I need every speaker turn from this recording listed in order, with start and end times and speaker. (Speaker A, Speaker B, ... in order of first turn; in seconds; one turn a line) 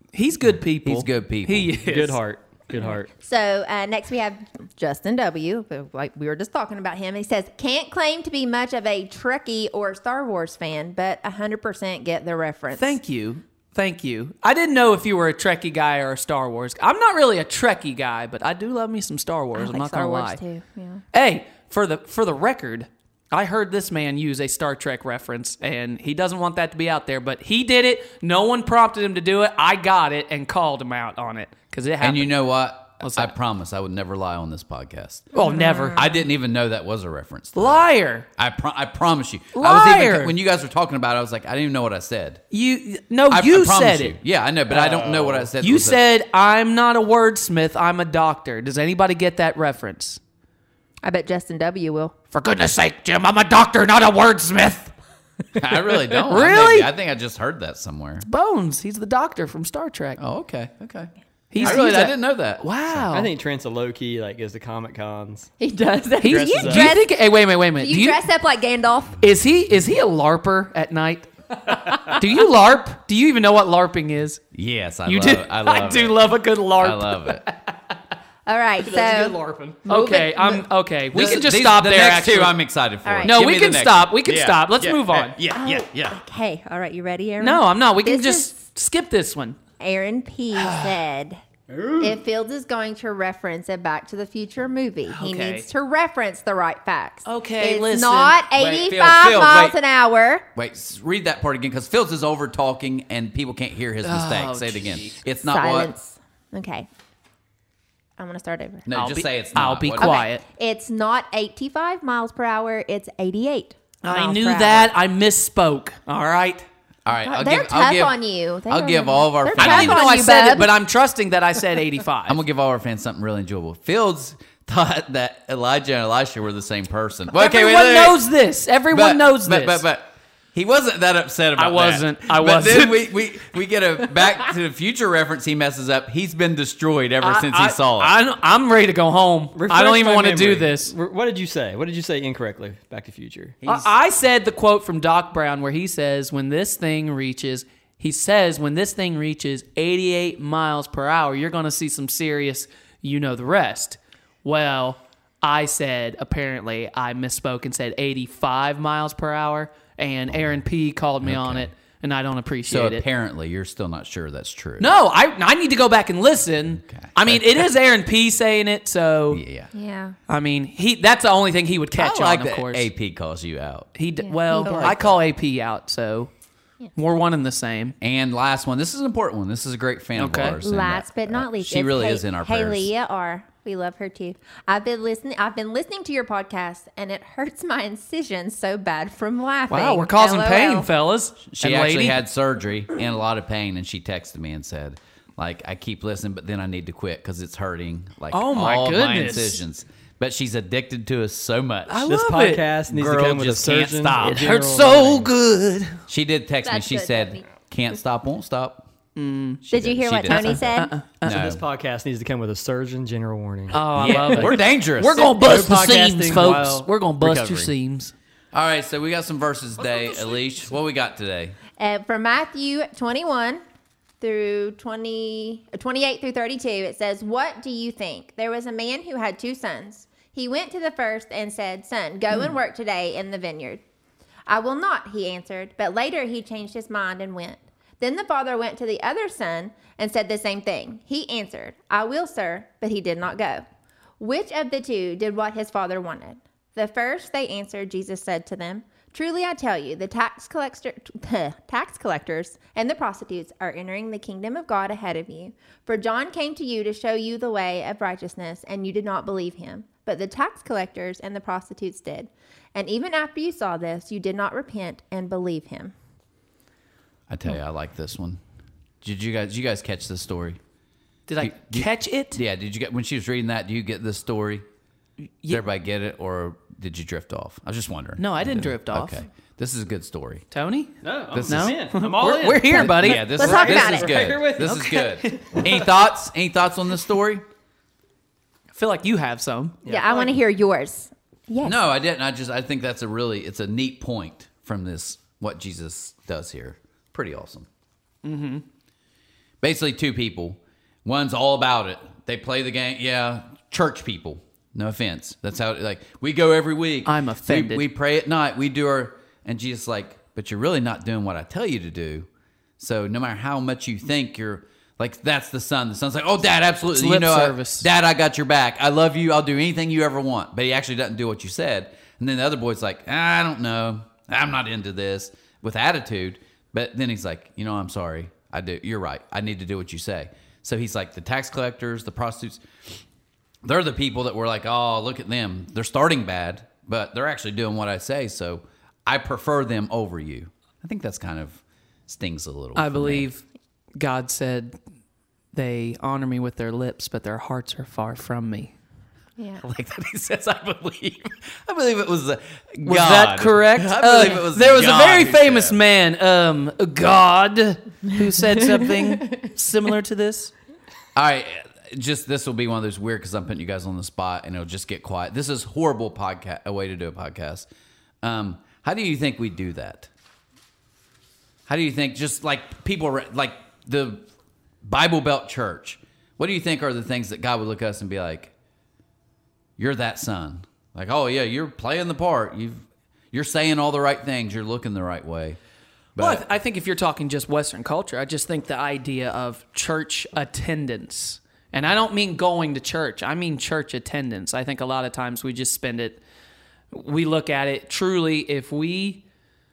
Speaker A: 0.1-2.2
Speaker B: 0.8-1.7
Speaker C: 1.8-3.1
Speaker D: 2.8-13.0
Speaker A: 12.8-20.4
Speaker D: 19.6-21.0
Speaker A: 21.1-32.5
Speaker B: 32.0-35.3
Speaker A: 33.0-33.3
Speaker A: 35.3-36.1
Speaker D: 35.4-36.1
Speaker B: 35.9-37.8
Speaker A: 37.5-38.3
Speaker B: 38.4-42.4
Speaker A: 39.5-40.4
Speaker A: 42.5-44.2
Speaker B: 43.3-46.0
Speaker A: 44.7-45.0
Speaker C: 44.8-45.4
Speaker A: 45.6-50.2
Speaker D: 51.0-52.1
Speaker A: 52.3-54.9
Speaker B: 55.6-58.2
Speaker A: 55.7-56.9
Speaker A: 58.2-60.2
Speaker B: 60.2-63.1
Speaker A: 61.5-63.3
Speaker C: 63.1-65.5
Speaker D: 65.6-67.1
Speaker A: 66.2-68.2
Speaker C: 66.2-66.9
Speaker D: 67.8-69.2
Speaker A: 69.2-74.4
Speaker B: 74.5-76.2
Speaker A: 75.1-77.9
Speaker B: 76.8-77.4
Speaker D: 78.5-79.3
Speaker C: 78.8-79.9
Speaker D: 79.9-80.7
Speaker A: 79.9-82.6
Speaker B: 81.1-86.2
Speaker D: 83.0-83.4
Speaker A: 83.2-85.4
Speaker D: 85.6-88.5
Speaker A: 87.4-89.6
Speaker D: 89.8-91.4
Speaker A: 90.5-90.9
Speaker D: 92.0-100.5
Speaker A: 95.1-95.7
Speaker A: 97.3-98.4
Speaker B: 98.6-99.8
Speaker B: 100.6-105.9
Speaker A: 104.0-105.2
Speaker D: 105.4-106.9
Speaker D: 108.2-108.9
Speaker B: 108.9-110.2
Speaker A: 108.9-110.4
Speaker D: 110.0-114.9
Speaker A: 114.0-116.7
Speaker B: 117.1-120.0
Speaker D: 117.1-120.7
Speaker A: 119.6-122.4
Speaker B: 122.3-128.2
Speaker A: 127.3-129.8
Speaker B: 128.9-138.1
Speaker A: 131.6-133.1
Speaker A: 137.2-140.9
Speaker C: 139.5-143.6
Speaker B: 143.6-143.9
Speaker A: 143.7-163.1
Speaker B: 161.2-161.7
Speaker B: 162.7-164.9
Speaker A: 164.8-169.4
Speaker B: 166.8-167.7
Speaker B: 169.3-169.7
Speaker D: 169.7-170.2
Speaker A: 170.3-172.9
Speaker B: 172.0-173.9
Speaker A: 173.9-176.3
Speaker D: 174.2-175.0
Speaker B: 174.5-175.2
Speaker A: 177.0-177.9
Speaker B: 178.0-182.9
Speaker A: 180.2-180.6
Speaker D: 180.6-190.9
Speaker A: 189.7-192.2
Speaker B: 191.5-202.1
Speaker A: 198.3-199.6
Speaker A: 201.9-206.0
Speaker C: 202.1-205.3
Speaker B: 206.1-208.9
Speaker D: 206.6-207.4
Speaker A: 209.2-209.6
Speaker B: 209.7-211.6
Speaker D: 209.7-210.9
Speaker A: 210.2-211.4
Speaker C: 211.3-214.5
Speaker A: 213.7-218.1
Speaker B: 213.9-215.3
Speaker C: 215.2-217.7
Speaker B: 218.5-221.6
Speaker D: 221.8-223.6
Speaker D: 224.2-233.8
Speaker D: 234.5-243.6
Speaker D: 244.2-265.9
Speaker B: 267.3-268.4
Speaker B: 269.0-270.6
Speaker A: 271.3-272.4
Speaker B: 271.4-274.6
Speaker B: 275.5-280.4
Speaker A: 278.2-279.2
Speaker A: 280.5-280.9
Speaker C: 281.0-284.7
Speaker B: 281.3-281.9
Speaker A: 281.5-283.3
Speaker B: 282.7-287.4
Speaker D: 283.0-284.2
Speaker A: 284.6-285.5
Speaker A: 288.7-289.8
Speaker C: 289.8-290.4
Speaker D: 289.9-291.8
Speaker B: 291.6-297.7
Speaker A: 298.2-298.6
Speaker B: 299.6-312.3
Speaker A: 307.1-307.9
Speaker B: 312.8-332.6
Speaker A: 316.9-317.9
Speaker B: 333.6-343.3
Speaker A: 342.8-343.4
Speaker A: 344.0-344.8
Speaker A: 345.5-348.7
Speaker D: 349.4-349.6
Speaker B: 349.6-355.8
Speaker A: 352.9-360.5
Speaker B: 361.1-367.7
Speaker B: 368.2-370.1
Speaker B: 371.7-374.3
Speaker B: 374.9-378.5
Speaker B: 379.8-385.6
Speaker B: 386.2-386.4
Speaker A: 386.2-396.2
Speaker A: 396.9-399.2